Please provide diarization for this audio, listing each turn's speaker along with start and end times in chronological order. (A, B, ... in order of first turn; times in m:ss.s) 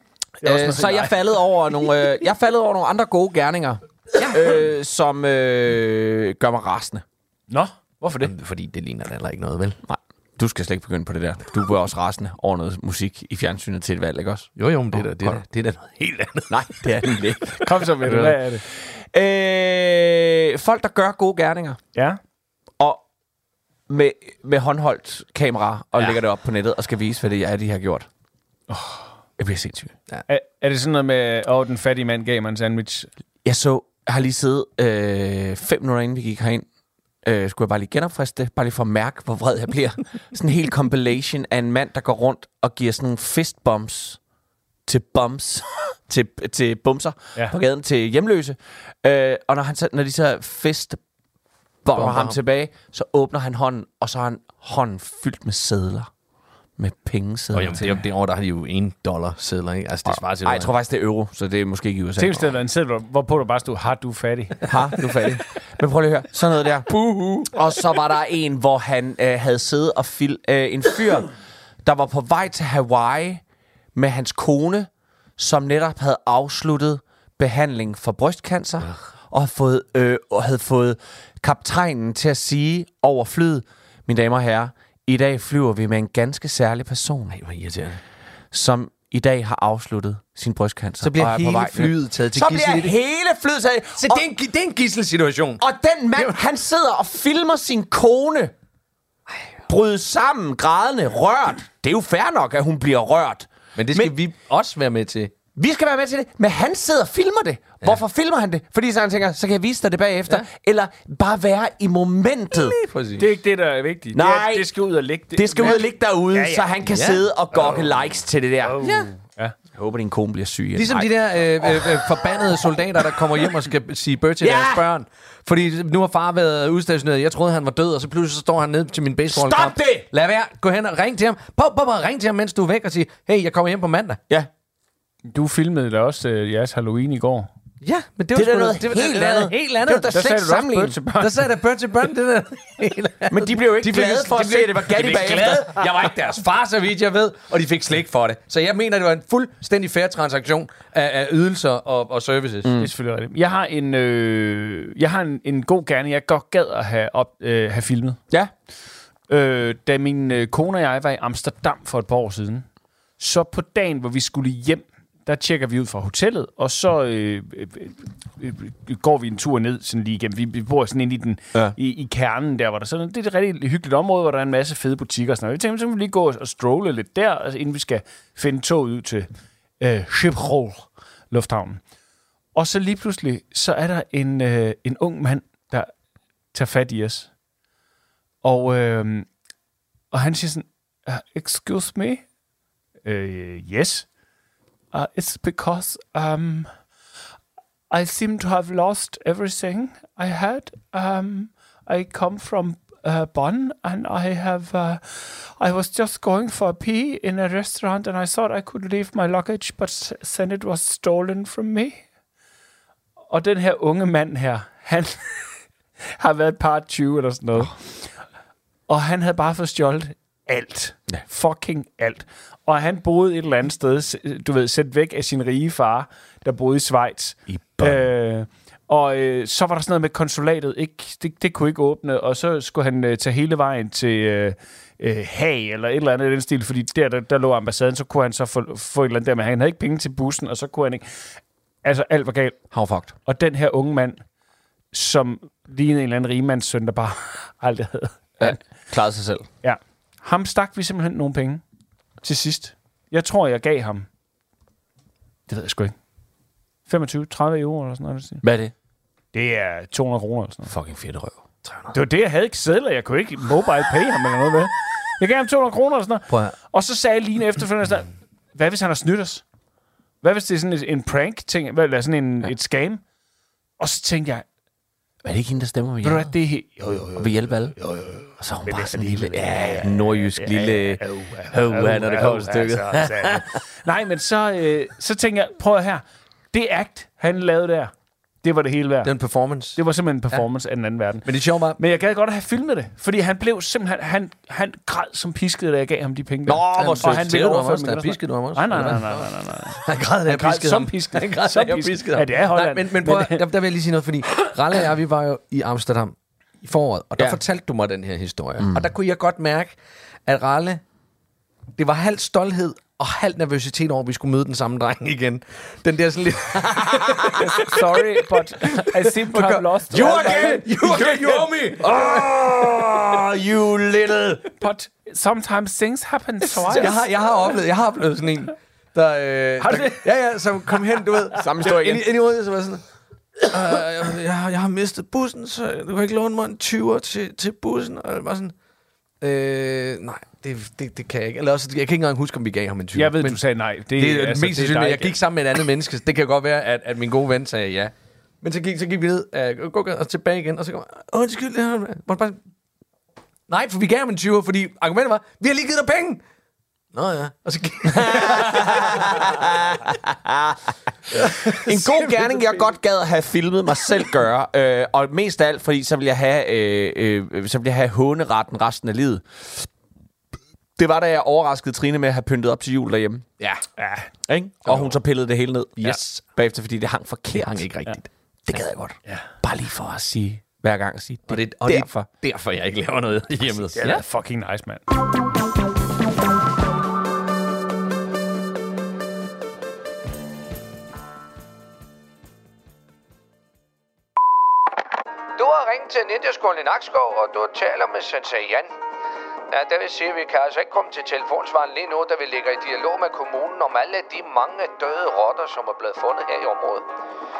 0:00.4-0:01.1 A
0:00.4-0:07.0 B
0:04.2-0:04.6 C
0:07.5-0:08.3 A
0:08.2-0:09.8 C
0:09.8-0:15.4 B
0:14.6-0:18.4 C
0:16.5-0:18.3 B
0:17.6-0:18.6 A
0:19.1-0:21.8 B
0:23.9-0:28.1 B
0:28.7-0:29.1 A
0:29.4-0:29.9 B
0:30.3-0:33.1 A
0:33.4-0:36.6 B
0:37.2-0:44.2 B
0:44.8-0:51.0 B
0:51.8-0:56.1 B
0:51.9-0:52.4 C
0:56.8-0:58.0 B
0:57.5-1:00.7 C
1:00.0-1:02.5 B
1:02.2-1:04.7 A
1:04.7-1:06.9 B
1:06.9-1:07.5 C
1:07.5-1:11.3 B
1:11.8-1:13.4 B
1:13.9-1:27.4 B
1:27.3-1:28.0 C
1:28.5-1:34.2 B
1:31.0-1:32.9 C
1:34.0-1:35.6 C
1:35.6-1:38.5 B
1:39.7-1:44.1 B
1:43.7-1:45.3 C
1:45.6-1:52.8 B
1:52.5-1:53.3 C
1:53.2-1:56.6 A
1:54.1-1:54.7 B
1:55.3-1:58.8 B
1:56.8-1:57.2 C
1:58.6-1:59.5 A
1:58.8-1:59.1 C
1:59.7-2:02.0 B
2:00.8-2:14.2 C
2:04.4-2:04.8 B
2:09.3-2:10.0 B
2:15.3-2:17.5 A
2:17.8-2:20.2 C
2:18.3-2:21.0 B
2:20.1-2:21.4 A
2:21.2-2:32.7 C
2:23.3-2:25.8 B
2:32.6-2:32.9 B
2:32.8-2:38.2 A
2:39.3-2:42.6 A
2:43.2-2:59.3 A
2:59.8-3:01.8 A
3:02.5-3:05.9 A
3:06.5-3:07.3 A
3:08.4-3:09.3 A
3:10.1-3:12.2 A
3:13.0-3:14.1 A
3:14.9-3:16.7 A
3:17.9-3:32.0 A
3:33.3-3:35.5 A
3:36.2-3:38.1 A
3:38.9-4:01.0 A
3:47.5-3:47.9 B
4:01.8-4:02.6 A
4:02.7-4:03.1 B
4:03.2-4:04.2 A
4:04.9-4:08.6 A
4:08.4-4:09.5 B
4:09.6-4:11.6 A
4:12.2-4:14.1 A
4:15.5-4:15.9 A
4:16.9-4:18.4 A
4:18.4-4:18.7 B
4:19.3-4:20.7 A
4:20.7-4:21.4 B
4:21.6-4:21.9 C
4:21.9-4:29.4 A
4:26.3-4:26.5 C
4:30.2-4:33.0 A
4:33.8-4:34.4 A
4:35.2-4:36.3 B
4:36.0-4:47.9 A
4:37.2-4:37.7 B
4:38.4-4:41.0 B
4:41.5-4:43.4 B
4:48.4-4:49.1 A
4:49.0-4:49.8 C
4:49.7-5:03.4 A
4:51.2-4:51.8 C
4:56.5-4:57.3 B
4:56.8-5:10.8 C
5:08.6-5:08.9 B
5:11.8-5:17.8 C
5:17.4-5:20.6 A
5:18.7-5:22.8 C
5:19.9-5:24.4 B
5:24.6-5:27.0 A
5:26.6-5:32.8 C
5:29.6-5:30.0 A
5:31.4-5:32.0 B
5:33.4-5:38.5 C
5:39.2-5:43.4 C
5:42.9-5:45.2 A
5:43.9-5:52.4 C
5:53.5-5:56.2 C
5:56.9-5:59.8 C
5:58.0-6:00.6 B
6:01.1-6:02.7 C
6:01.1-6:09.6 B
6:10.8-6:13.2 B
6:13.8-6:14.1 A
6:14.3-6:17.7 B
6:14.6-6:15.0 C
6:15.8-6:16.2 C
6:17.3-6:18.1 C
6:18.5-6:22.1 B
6:21.3-6:24.0 C
6:23.7-6:24.8 A
6:35.4-6:38.7 D
6:39.5-6:46.9 D